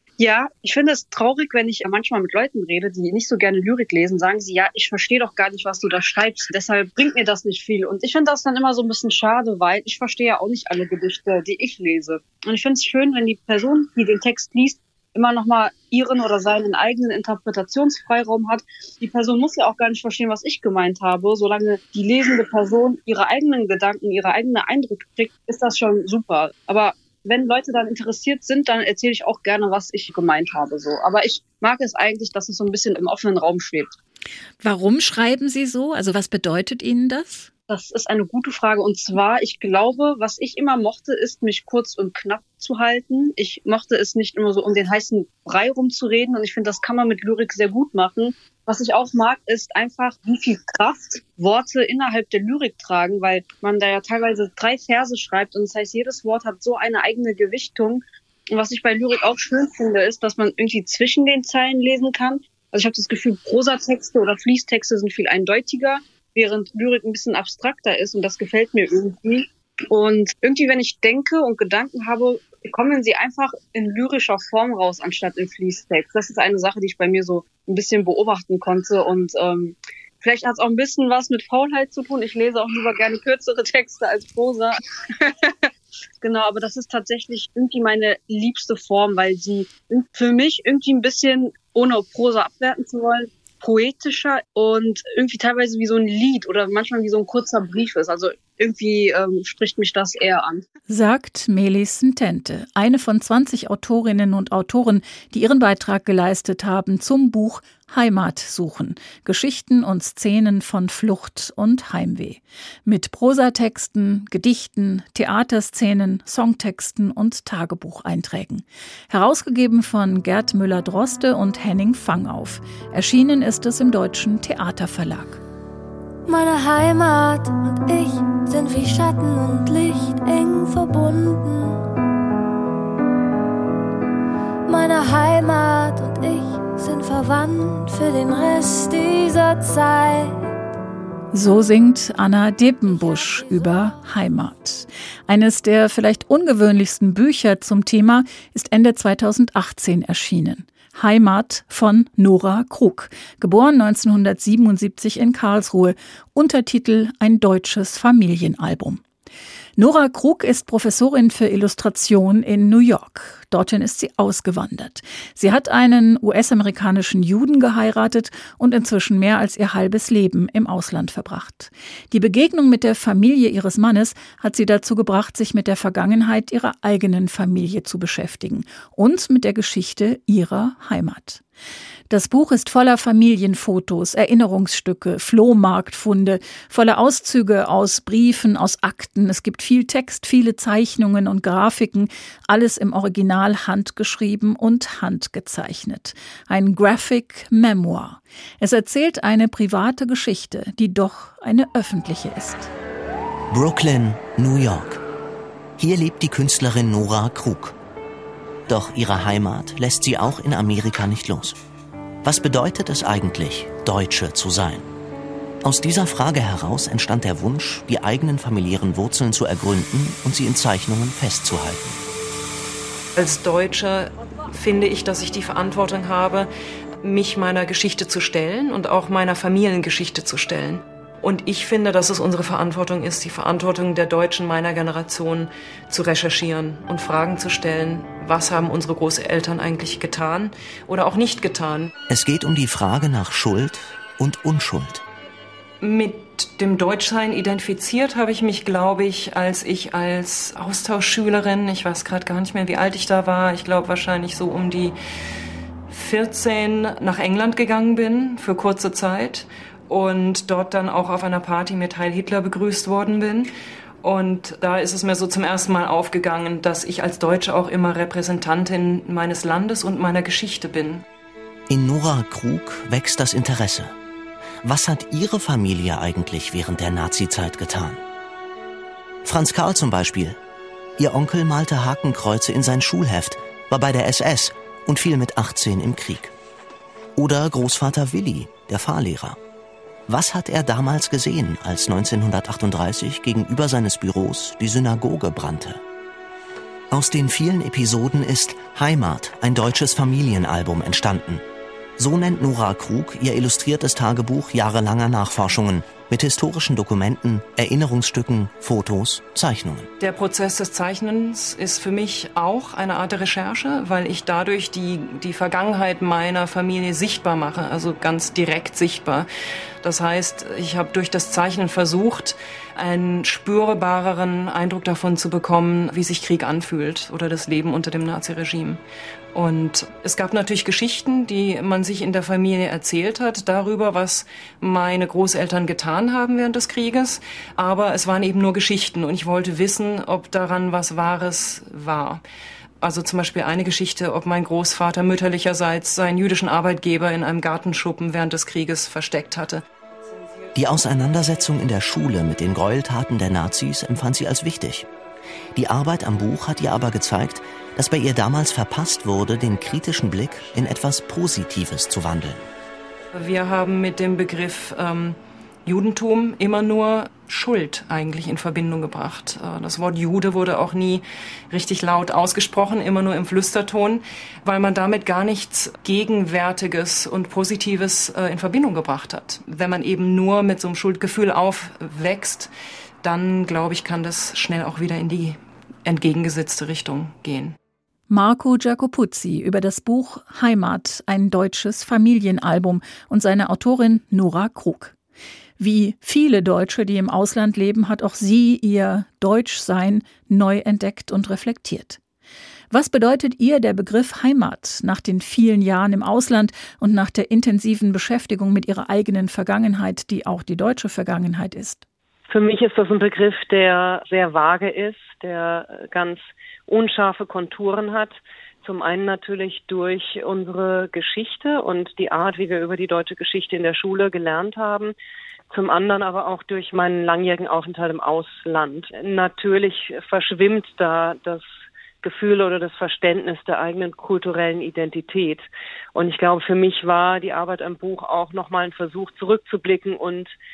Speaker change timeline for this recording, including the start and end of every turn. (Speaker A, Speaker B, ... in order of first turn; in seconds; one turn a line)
Speaker A: 0.2-33.9
Speaker B: 34.6-37.5
Speaker A: 37.7-85.7
Speaker A: 86.2-100.6
Speaker B: 100.9-125.4
Speaker C: 126.2-131.8
Speaker C: 134.6-140.5
Speaker B: 141.3-159.0
Speaker C: 143.0-143.7
Speaker B: 159.8-181.4
Speaker B: 182.1-202.7
Speaker D: 203.5-205.0
Speaker D: 205.8-207.8
Speaker D: 208.7-211.6
Speaker D: 212.2-214.8
Speaker D: 215.6-222.0
Speaker E: 223.2-226.5
Speaker E: 227.0-241.9
Speaker D: 242.1-245.0
Speaker E: 245.8-254.9
Speaker E: 255.9-263.5
Speaker E: 264.0-271.0
Speaker D: 271.7-273.9
Speaker D: 274.6-278.0
Speaker D: 279.2-280.4
Speaker D: 281.0-286.3
Speaker D: 287.1-289.4
Speaker D: 290.1-295.8
Speaker D: 296.9-301.4
Speaker D: 302.0-309.9
Speaker E: 310.0-319.3
Speaker E: 319.8-328.8
Speaker E: 329.3-342.2
Speaker E: 342.8-349.6
Speaker D: 350.5-354.9
Speaker D: 355.5-362.5
Speaker E: 363.1-382.5
Speaker E: 383.0-387.6
Speaker B: 388.1-394.9
Speaker B: 395.6-402.0
Speaker B: 402.7-411.8
Speaker F: 412.3-424.9
Speaker F: 425.5-431.4
Speaker F: 432.0-440.3